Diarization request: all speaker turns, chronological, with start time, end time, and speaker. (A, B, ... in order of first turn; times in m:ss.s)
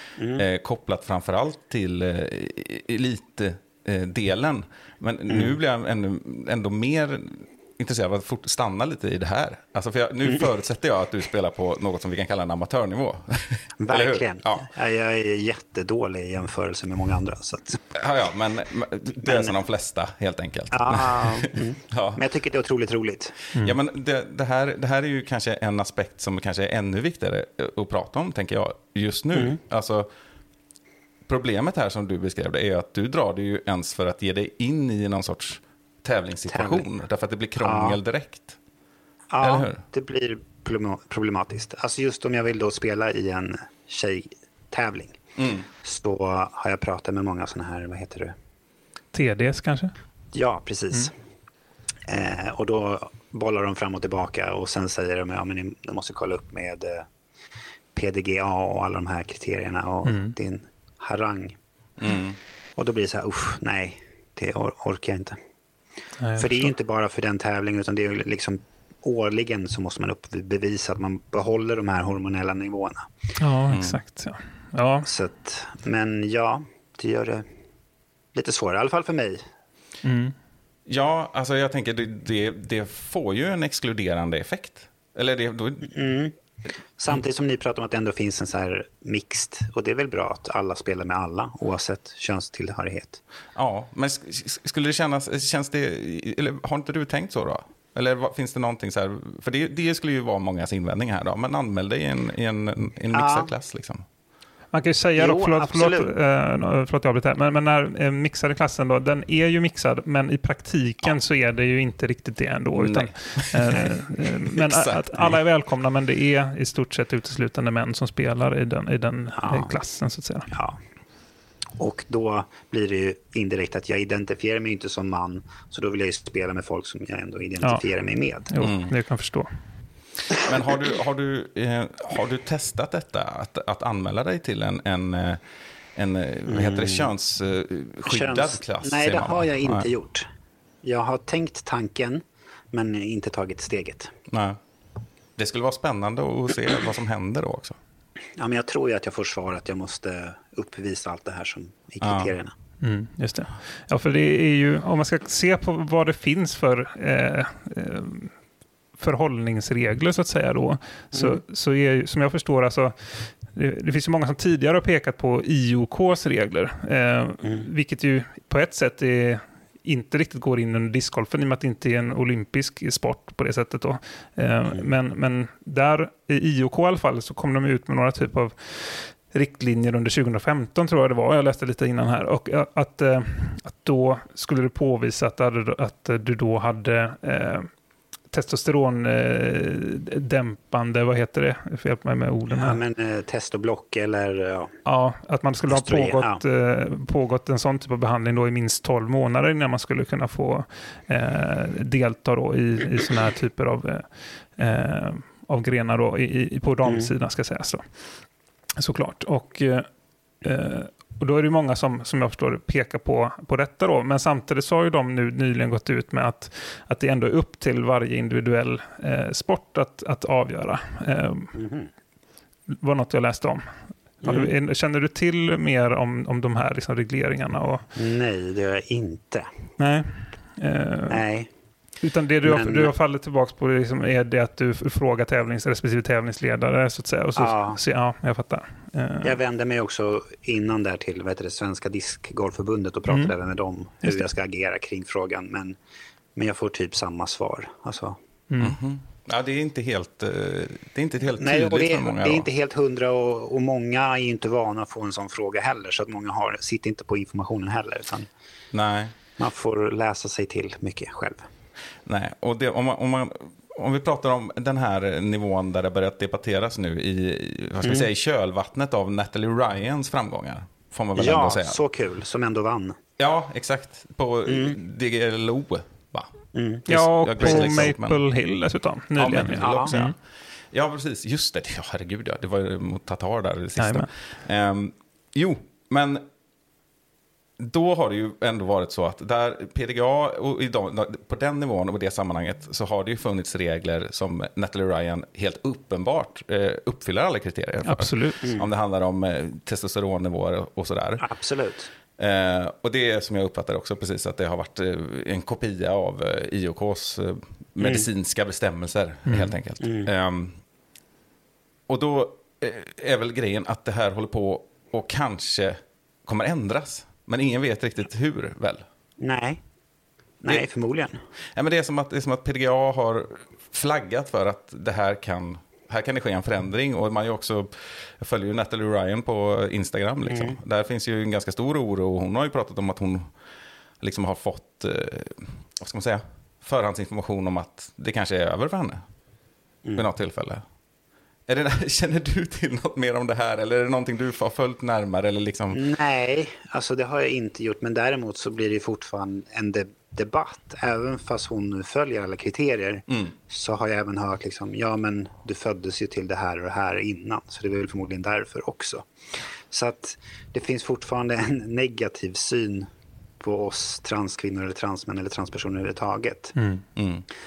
0:00.2-0:00.4 A
0:00.4-0:14.6 B
0:13.8-0:17.8 A
0:17.9-0:22.2 B
0:19.2-0:19.5 A
0:20.7-0:23.4 A
0:23.6-0:30.1 B
0:29.3-0:29.6 A
0:31.3-0:38.6 B
0:36.5-0:36.8 A
0:37.6-0:38.0 A
0:39.3-0:45.2 A
0:39.4-0:39.8 B
0:45.4-0:45.7 B
0:45.8-0:48.3 A
0:49.1-0:49.9 C
0:50.3-0:51.1 A
0:52.1-0:57.1 A
0:57.9-1:01.6 A
1:00.0-1:00.3 C
1:02.0-1:02.4 B
1:02.8-1:05.4 A
1:06.2-1:06.7 C
1:06.4-1:13.1 A
1:13.4-1:15.1 C
1:13.7-1:14.0 B
1:15.0-1:17.5 A
1:18.3-1:19.5 A
1:20.0-1:20.3 C
1:20.9-1:25.9 B
1:25.9-1:26.3 A
1:27.0-1:33.2 A
1:33.6-1:44.0 B
1:43.1-1:43.5 A
1:44.7-2:00.5 C
1:45.2-1:46.1 A
1:52.7-1:55.4 B
1:59.4-1:59.7 A
2:00.5-2:00.8 A
2:01.8-2:08.5 A
2:08.5-2:09.5 C
2:08.6-2:08.9 B
2:10.3-2:15.4 B
2:16.0-2:19.9 B
2:16.5-2:17.1 A
2:18.0-2:20.3 A
2:20.8-2:24.1 A
2:24.3-2:24.6 B
2:25.4-2:27.8 B
2:28.4-2:32.5 A
2:32.0-2:32.3 B
2:32.8-2:38.3 C
2:39.0-3:07.7 C
2:41.1-2:41.4 A
3:08.3-3:12.8 C
3:12.5-3:14.7 A
3:14.8-3:28.0 C
3:15.7-3:16.4 A
3:26.8-3:27.1 A
3:28.8-3:29.9 C
3:30.4-3:41.5 C
3:41.5-3:41.9 A
3:42.7-3:43.6 C
3:44.2-3:47.8 C
3:44.2-3:44.5 A
3:48.0-3:49.5 A
3:49.8-3:51.2 C
3:51.1-3:51.5 A
3:52.0-3:59.4 C
3:52.4-3:52.9 A
3:57.4-3:57.8 A
3:59.2-4:05.8 A
4:06.4-4:08.2 A
4:08.5-4:08.8 C
4:08.6-4:12.5 B
4:11.4-4:18.3 A
4:18.7-4:19.1 B
4:19.4-4:21.4 A
4:22.0-4:31.8 B
4:27.8-4:28.1 A
4:31.2-4:33.0 A
4:33.2-4:36.3 B
4:34.4-4:34.8 A
4:36.5-4:36.8 A
4:36.9-4:38.2 B
4:36.9-4:40.1 C
4:37.4-4:37.7 A
4:39.2-4:40.2 B
4:39.6-4:39.9 A
4:40.7-4:46.2 B
4:43.8-4:44.1 C
4:47.6-5:01.2 B
4:57.8-4:58.4 C
4:58.4-4:58.7 A
5:01.2-5:01.9 A
5:02.2-5:10.6 B
5:07.8-5:08.0 A
5:09.2-5:09.5 C
5:09.8-5:10.1 A
5:11.9-5:18.8 B
5:19.2-5:19.6 A
5:20.4-5:21.2 A
5:21.5-5:33.3 B
5:30.3-5:30.6 A
5:34.0-5:39.0 B
5:40.0-5:40.6 B
5:41.5-5:45.8 B
5:45.7-5:59.1 A
5:53.1-5:53.3 B
5:59.7-6:02.9 A
6:03.4-6:06.5 A
6:06.6-6:06.8 C
6:07.0-6:07.2 B